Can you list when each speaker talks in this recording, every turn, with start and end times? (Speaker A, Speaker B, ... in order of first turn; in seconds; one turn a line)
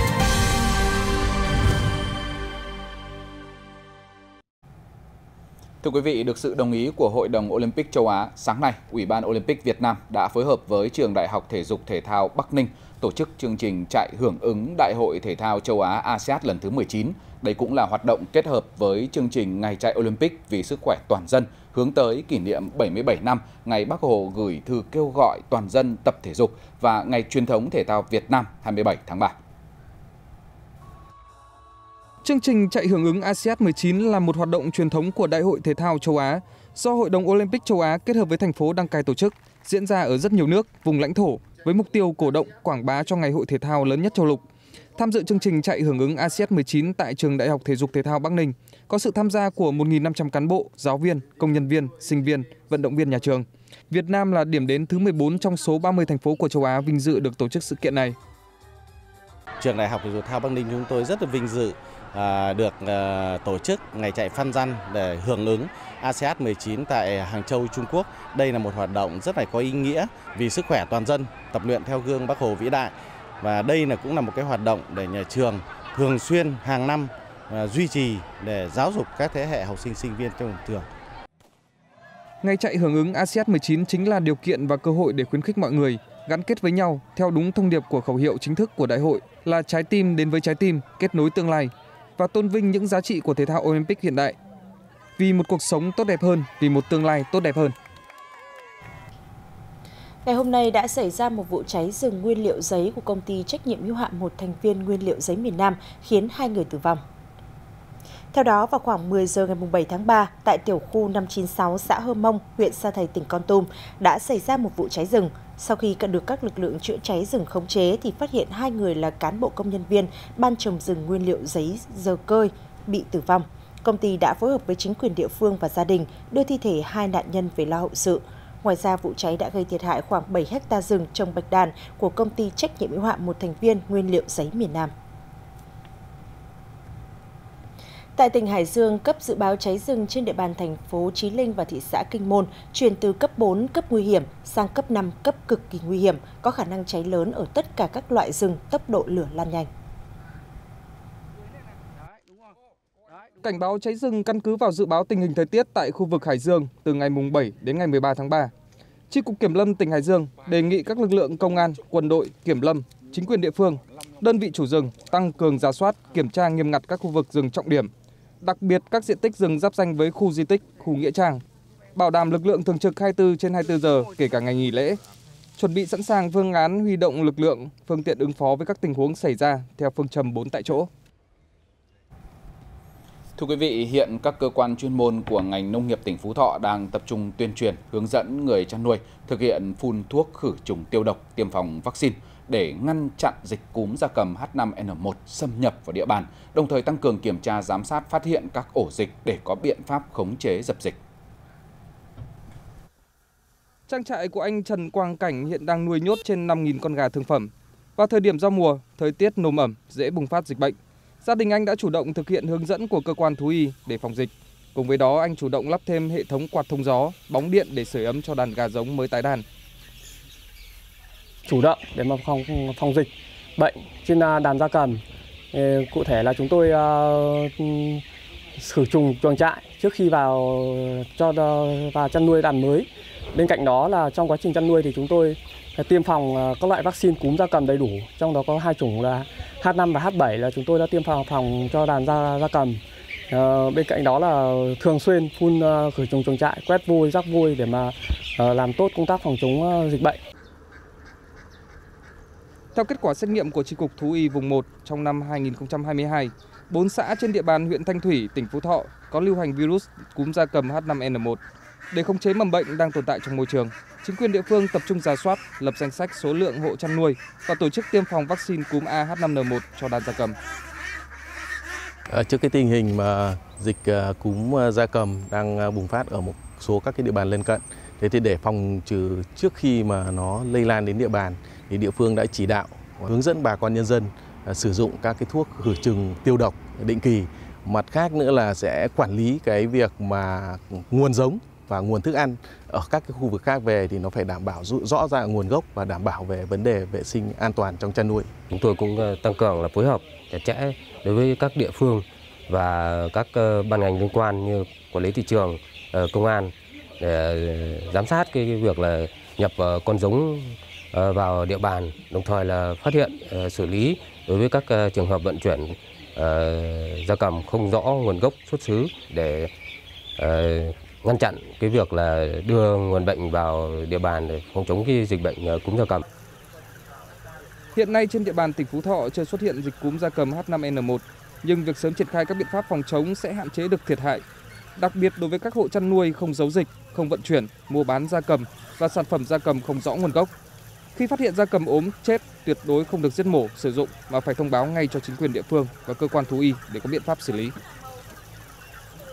Speaker A: 5.8-29.4
Speaker B: 32.2-44.5
Speaker B: 45.0-58.2
Speaker C: 59.6-80.9
Speaker B: 82.4-94.4
Speaker B: 95.2-97.8
Speaker D: 100.2-107.0
Speaker D: 108.3-134.9
Speaker D: 138.2-149.7
Speaker B: 153.4-158.5
Speaker B: 159.1-167.9
Speaker B: 168.4-171.4
Speaker B: 171.9-175.0
Speaker B: 175.6-180.9
Speaker A: 183.4-201.0
Speaker B: 203.9-219.4
Speaker E: 221.5-225.0
Speaker E: 225.5-228.0
Speaker E: 228.6-250.2
Speaker B: 252.8-261.4
Speaker B: 261.9-270.4
Speaker C: 272.1-298.3
Speaker F: 298.5-319.5
Speaker F: 320.2-326.0
Speaker B: 327.8-334.2
Speaker B: 334.8-340.3
Speaker B: 340.9-347.6